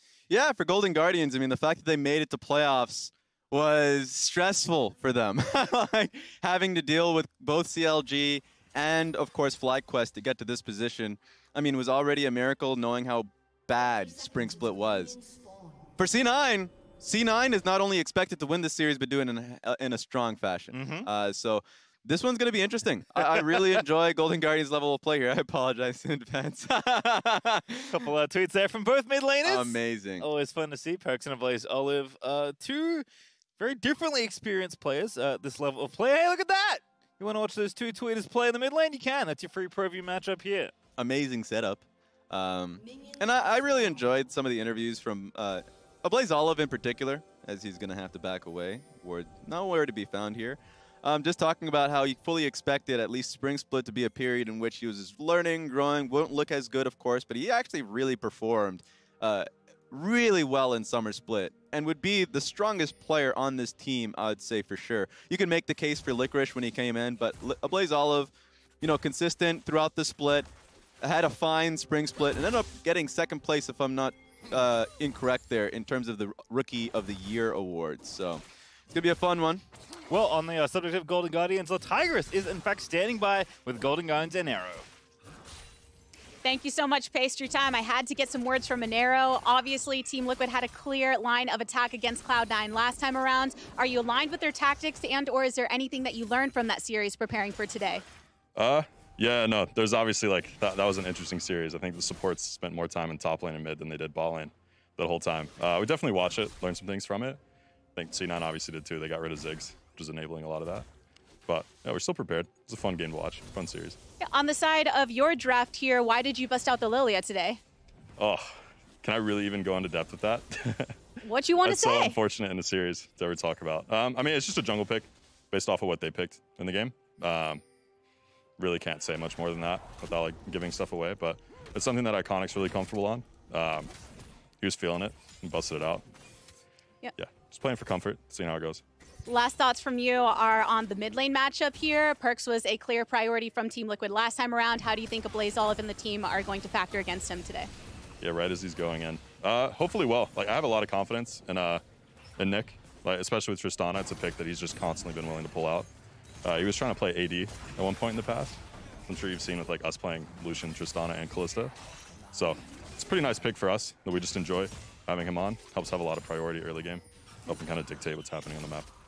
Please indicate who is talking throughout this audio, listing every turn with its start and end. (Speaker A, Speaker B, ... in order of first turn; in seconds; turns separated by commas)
Speaker A: 0.3-15.2, Speaker A: 16.0-28.1, Speaker B: 20.7-21.1, Speaker B: 23.3-23.8, Speaker B: 27.9-33.1, Speaker A: 29.4-30.3, Speaker B: 33.6-40.7, Speaker A: 41.0-70.5, Speaker A: 71.0-79.6, Speaker B: 80.1-84.9, Speaker C: 86.4-98.0, Speaker D: 98.6-107.4, Speaker D: 108.0-110.9, Speaker D: 111.5-114.0, Speaker C: 114.2-117.6, Speaker D: 118.2-120.9, Speaker C: 121.2-122.2, Speaker D: 121.6-127.6, Speaker D: 128.6-133.9, Speaker D: 134.6-136.0, Speaker D: 137.2-138.8, Speaker C: 139.3-147.7, Speaker D: 148.2-151.8, Speaker D: 152.4-155.9, Speaker D: 156.4-161.7, Speaker D: 162.3-168.9